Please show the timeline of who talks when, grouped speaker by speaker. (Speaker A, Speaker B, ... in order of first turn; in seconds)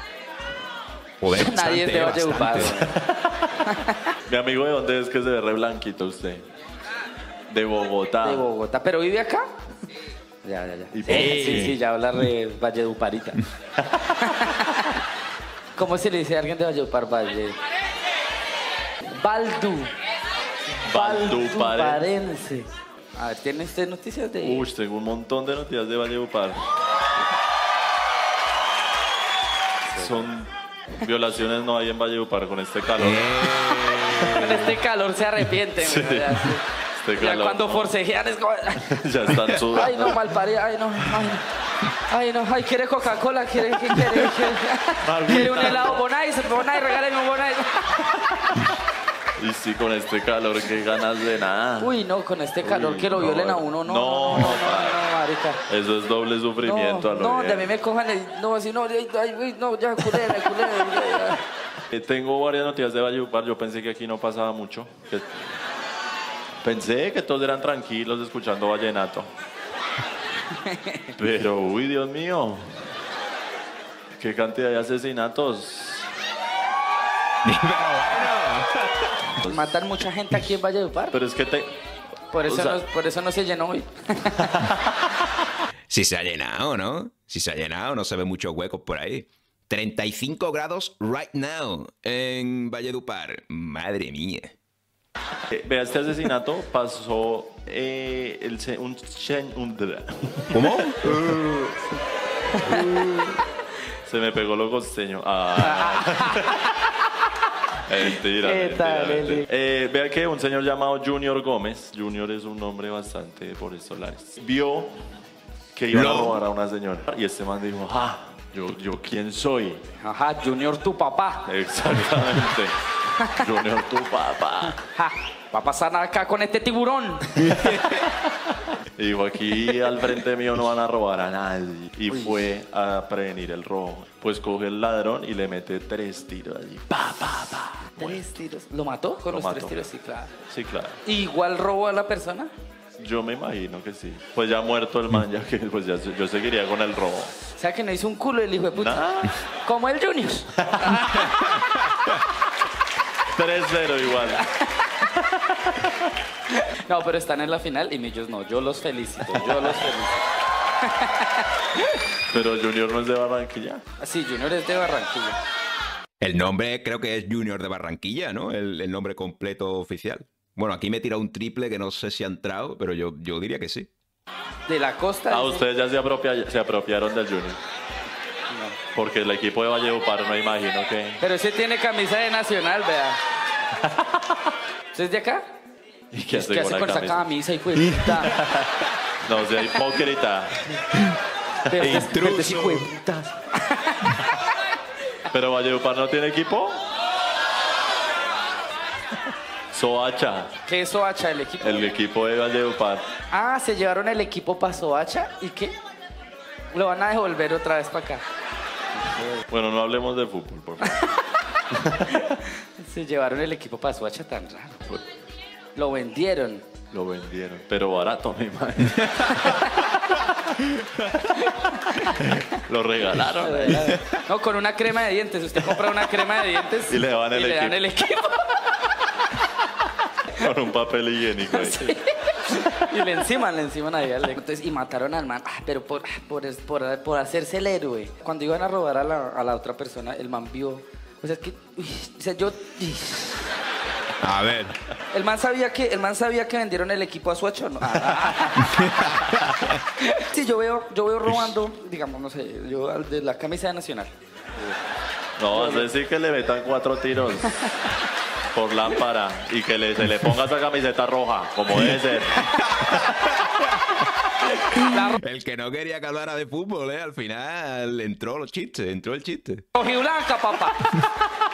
Speaker A: 1.2-2.8, 11.1-11.6, 33.0-34.5, 77.4-79.3, 85.9-94.5, 100.5-101.4, 115.9-116.4, 151.3-151.7, 166.2-173.9, 191.8-192.9, 244.2-244.8, 248.8-249.7, 262.4-264.0, 264.9-269.7
Speaker B: 1.3-3.0, 3.6-4.1, 8.2-9.5, 10.4-13.4, 14.2-14.9, 15.8-17.6, 19.1-19.9, 20.8-24.6, 29.9-30.3, 34.3-39.0, 39.7-48.0, 51.8-55.6, 56.6-61.4, 70.5-71.1, 79.5-81.2, 82.3-84.7, 102.5-103.3, 105.6-106.5, 108.4-109.5, 120.0-121.5, 124.8-127.7, 132.1-132.4, 138.0-140.3, 141.0-142.5, 147.5-149.0, 149.6-151.6, 154.4-154.7, 156.5-160.2, 160.8-161.5, 164.0-165.4, 174.7-175.6, 178.5-178.8, 181.2-183.2, 184.9-185.5, 186.3-188.3, 191.7-194.4, 200.7-201.9, 203.3-205.8, 206.7-208.2, 209.1-209.4, 210.8-211.2, 212.1-214.9, 215.7-216.6, 219.4-220.0, 221.3-222.6, 223.4-229.0, 231.5-243.5, 245.1-248.9, 250.0-254.1, 255.5-255.9, 264.6-265.2, 269.7-271.2
Speaker C: 2.9-3.6, 4.3-6.5, 7.5-8.4, 10.9-11.8, 13.8-14.2, 20.9-22.0, 24.4-26.7, 29.9-34.6, 35.8-37.9, 38.9-40.3, 45.0-46.0, 49.4-52.0, 52.6-55.1, 55.7-57.7, 61.9-65.4, 66.6-69.3, 71.1-72.8, 74.2-76.1, 79.4-79.8, 81.1-81.7, 82.5-82.8, 95.5-101.2, 102.7-103.2, 104.0-106.7, 107.9-115.1, 115.7-119.8, 121.5-124.8, 127.5-138.3, 139.3-139.9, 140.5-141.0, 143.0-147.3, 148.8-149.4, 150.6-151.2, 153.3-154.5, 155.2-156.1, 159.3-159.8, 162.3-163.8, 175.3-177.6, 178.9-181.2, 183.9-184.3, 186.1-187.3, 188.2-190.6, 191.7-192.1, 195.3-196.8, 199.7-200.6, 201.6-203.0, 209.5-210.9, 211.7-212.3, 216.9-219.7, 220.8-221.3, 222.1-223.9, 226.9-227.8, 230.3-231.9, 255.4-257.8, 258.5-262.5